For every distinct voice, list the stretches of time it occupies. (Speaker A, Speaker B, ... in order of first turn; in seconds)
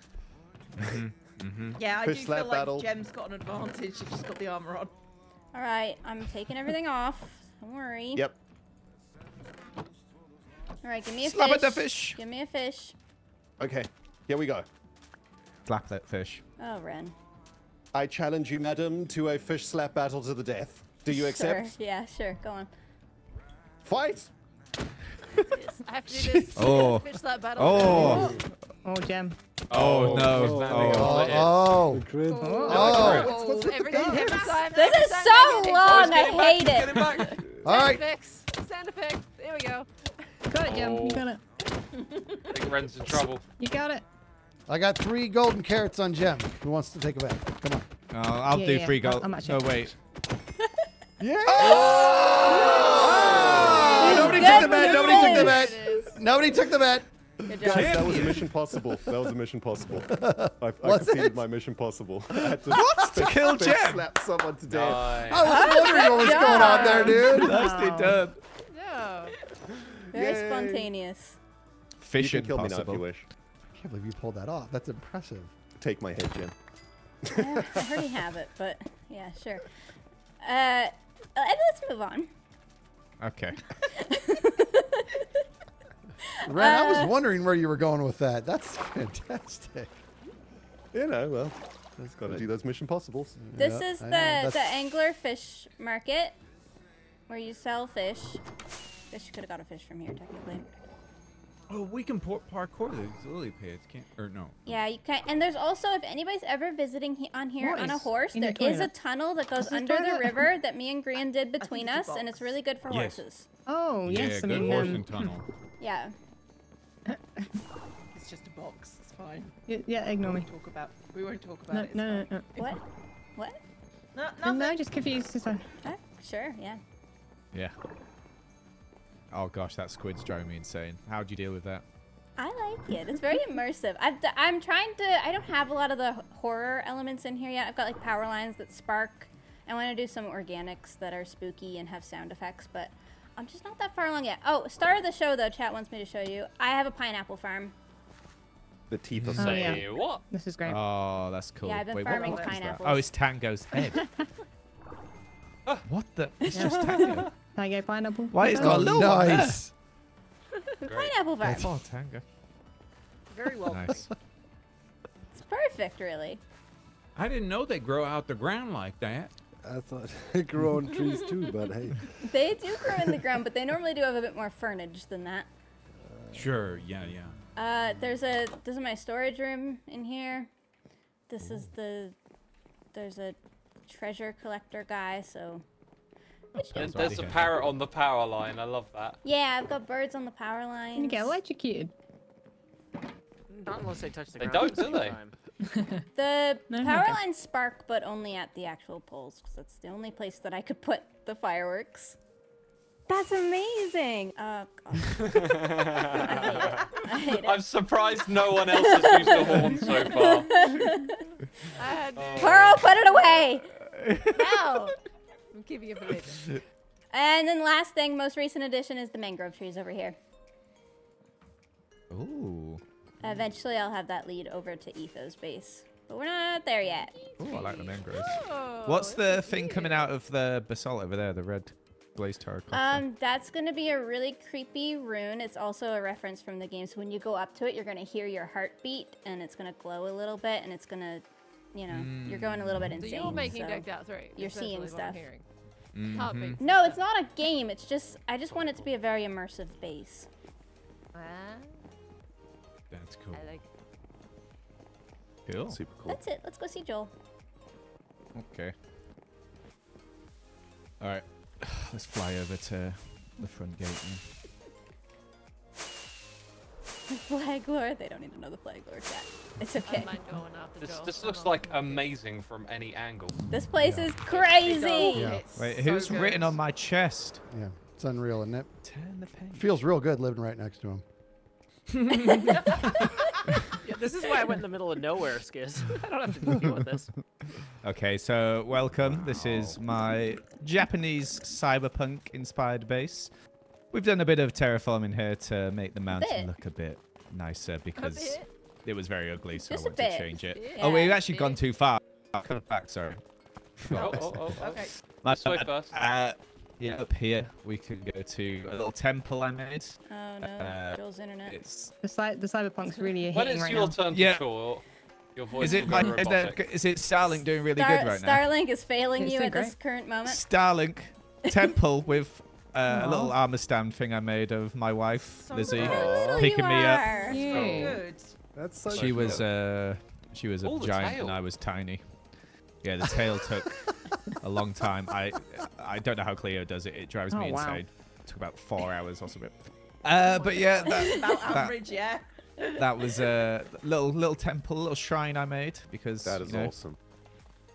Speaker A: 0.8-1.8, 29.8-30.5, 36.9-37.2, 53.4-54.9, 57.7-58.5, 101.7-104.6, 112.9-113.2, 114.0-115.5, 167.2-169.3, 176.3-177.4, 241.9-242.9, 245.9-246.6, 252.9-253.5, 282.0-282.4, 329.0-329.3
Speaker B: 1.8-4.9, 32.3-35.0, 41.9-42.8, 52.6-53.0, 111.6-112.5, 118.1-122.3, 124.1-124.8, 163.3-164.1, 274.3-276.6, 304.6-305.0, 325.4-326.3, 327.0-328.4, 340.2-343.1
Speaker C: 1.9-2.9, 13.6-14.7, 17.9-21.8, 23.8-24.3, 26.1-26.4, 51.2-54.9, 57.6-67.0, 70.1-70.9, 72.2-73.3, 75.8-76.5, 77.3-78.0, 90.9-91.6, 92.1-93.4, 148.9-149.8, 255.7-256.2, 288.9-289.8, 303.9-304.4, 325.7-326.5, 328.5-329.5, 346.2-347.0
Speaker D: 5.5-8.2, 10.8-12.9, 16.6-17.1, 21.1-22.7, 27.9-28.3, 34.7-37.3, 52.7-55.7, 57.5-58.0, 65.5-67.4, 70.1-71.4, 77.4-79.7, 80.4-82.3, 84.0-85.2, 86.5-87.2, 93.6-96.4, 97.3-98.4, 99.1-100.7, 104.7-113.5, 115.8-116.1, 125.8-126.8, 132.4-147.7, 151.6-153.1, 156.4-157.2, 160.9-161.7, 165.3-166.4, 172.3-175.5, 177.6-180.5, 181.3-182.2, 182.9-185.6, 186.6-187.2, 189.2-191.4, 196.2-202.2, 203.1-207.7, 208.7-211.1, 212.4-213.7, 217.1-220.2, 223.2-227.2, 232.7-245.2, 246.6-250.3, 256.1-257.1, 267.1-270.1, 273.5-275.4, 296.1-296.5, 299.7-301.2, 310.1-311.6, 317.7-320.4, 325.7-327.6
Speaker E: 11.2-12.2, 15.7-16.4, 26.6-28.4, 29.7-31.5, 48.1-50.0, 63.2-64.1, 67.2-68.4, 72.0-73.1, 83.2-83.6, 129.3-131.8, 149.2-149.6, 150.7-154.1, 155.9-157.3, 158.3-159.7, 161.4-162.2, 163.7-164.1, 186.6-187.7, 213.8-214.4, 222.1-222.8, 227.4-233.0, 242.7-243.4, 255.5-255.8, 258.4-258.7, 261.0-264.3, 273.8-274.1, 275.5-277.4, 278.8-279.8, 287.8-303.2, 303.8-311.9, 314.1-314.5, 315.6-318.5, 320.3-327.2, 328.9-332.3, 332.8-333.7, 334.4-341.8, 342.7-346.8
Speaker F: 25.5-28.3, 32.7-36.4, 36.9-40.1, 54.1-56.2, 68.7-69.3, 211.8-212.9, 214.3-215.0, 215.5-216.6, 227.2-230.1, 243.0-245.4, 246.1-247.0, 251.1-251.8, 253.3-253.7, 269.9-272.1, 298.0-298.5, 300.4-301.6
Speaker G: 28.9-29.4, 32.4-33.3, 40.5-41.4, 43.2-44.0, 48.5-49.9, 66.7-68.3, 107.6-108.9, 109.6-110.4, 113.7-115.4, 117.1-117.5, 119.7-120.5, 121.7-122.7, 124.4-125.6, 149.4-150.8, 156.5-159.1, 191.0-191.9, 196.7-197.2, 312.0-314.0, 319.2-319.8, 322.9-323.4, 327.3-328.1, 337.3-337.8
Speaker H: 29.7-31.7, 32.7-33.4, 35.8-37.2, 40.6-41.3, 42.5-43.4, 64.7-65.5, 149.4-150.2, 160.8-161.1, 186.8-189.2, 194.4-195.2, 205.3-210.5, 212.2-212.9, 270.8-273.4, 303.9-305.9, 313.3-316.6, 330.6-331.4
Speaker I: 30.1-31.1, 31.9-33.1, 169.6-172.2, 176.0-176.9
Speaker J: 30.8-32.1, 32.7-33.8, 37.6-38.0, 44.7-47.9, 51.2-59.3, 60.0-61.4, 62.4-63.1, 65.2-67.6, 73.7-75.5, 86.5-90.0, 92.0-92.5, 93.4-94.8, 158.6-159.7, 275.1-275.4, 277.5-278.7, 279.5-281.0
Speaker K: 193.5-195.4, 283.8-287.1